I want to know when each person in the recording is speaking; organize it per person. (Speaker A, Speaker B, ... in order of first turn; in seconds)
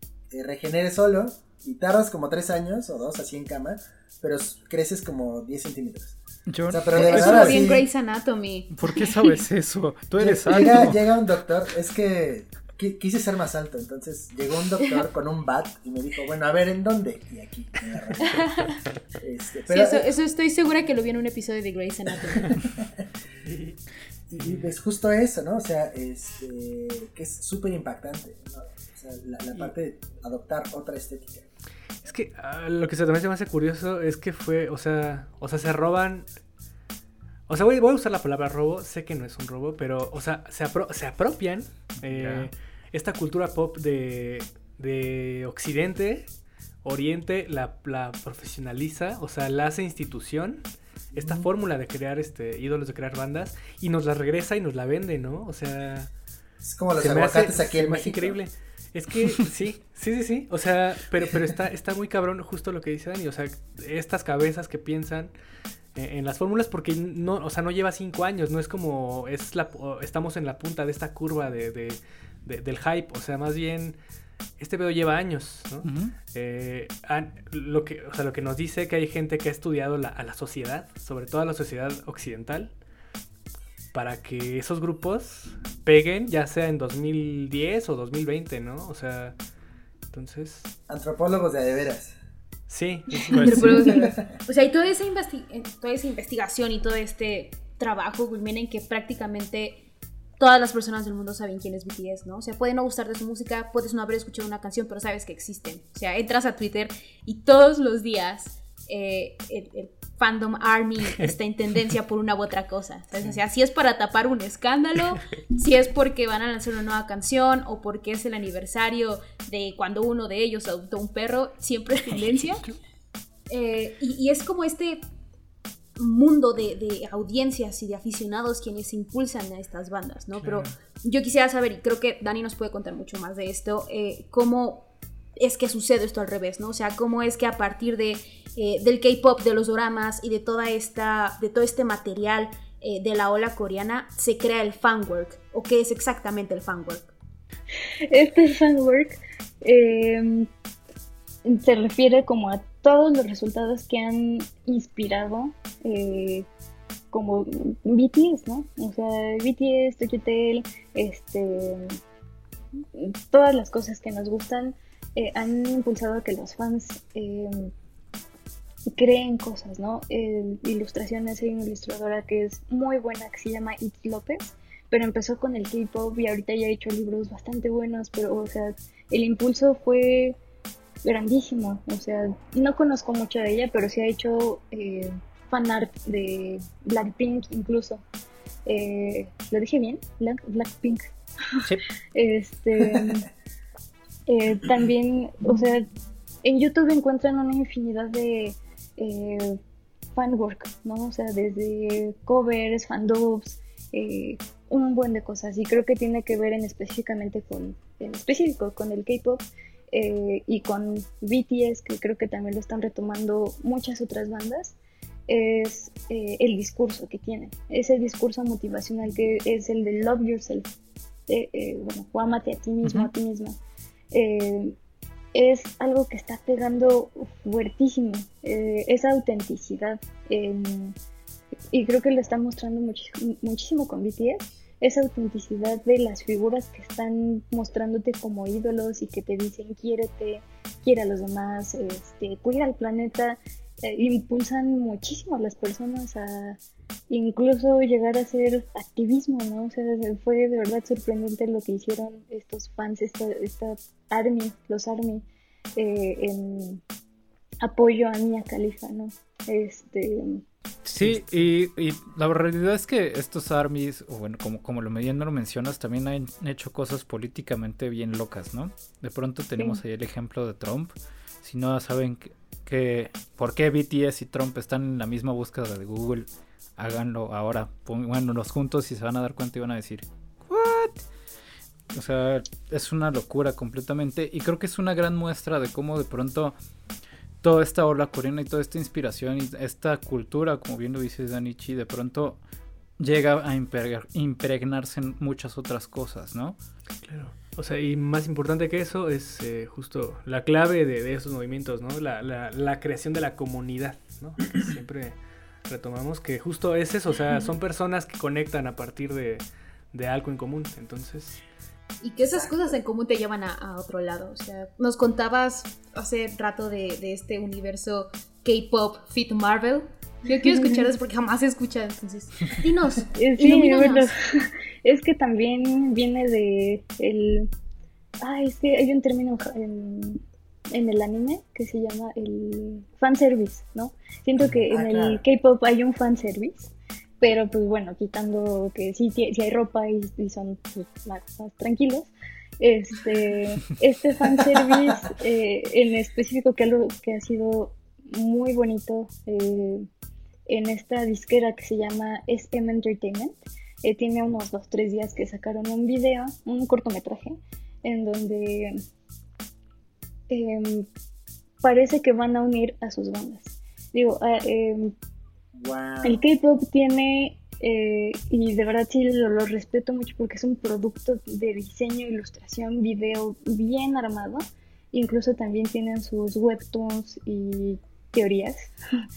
Speaker A: 0.3-7.8, 10.2-20.1, 24.3-31.4, 51.1-51.4, 56.6-58.4, 90.9-92.2, 93.5-94.4, 192.8-193.1, 312.2-312.8, 334.4-335.2, 365.5-366.2
Speaker B: 6.5-7.8, 8.7-11.0, 42.0-42.5, 75.8-76.1, 93.3-93.9, 222.8-223.1, 260.9-281.0, 281.9-286.6, 287.4-292.4, 293.0-296.6
Speaker C: 6.9-9.3, 18.4-18.7, 19.7-22.6, 93.2-99.8, 100.4-122.6, 123.5-125.0, 126.0-147.1, 312.0-324.1
Speaker D: 23.4-23.8, 24.4-24.8, 32.0-36.2, 37.5-46.3, 46.8-50.6, 51.1-56.1, 57.0-65.3, 65.9-74.0, 74.6-82.7, 83.9-89.3, 90.1-90.7, 92.7-93.8, 130.4-130.7, 261.0-261.3, 297.0-305.1, 305.7-311.4
Speaker E: 148.1-150.5, 151.4-156.5, 157.1-162.0, 162.9-167.7, 168.9-180.4, 181.0-188.0, 188.7-191.1, 192.1-193.2, 194.3-195.8, 196.4-199.6, 200.1-214.8, 215.3-220.7, 221.3-223.6, 224.1-224.8, 225.3-230.9, 231.7-255.2, 255.8-256.8, 257.6-260.4, 323.1-327.5, 328.2-349.9, 350.5-358.8, 360.3-360.9, 361.6-364.9, 366.0-378.7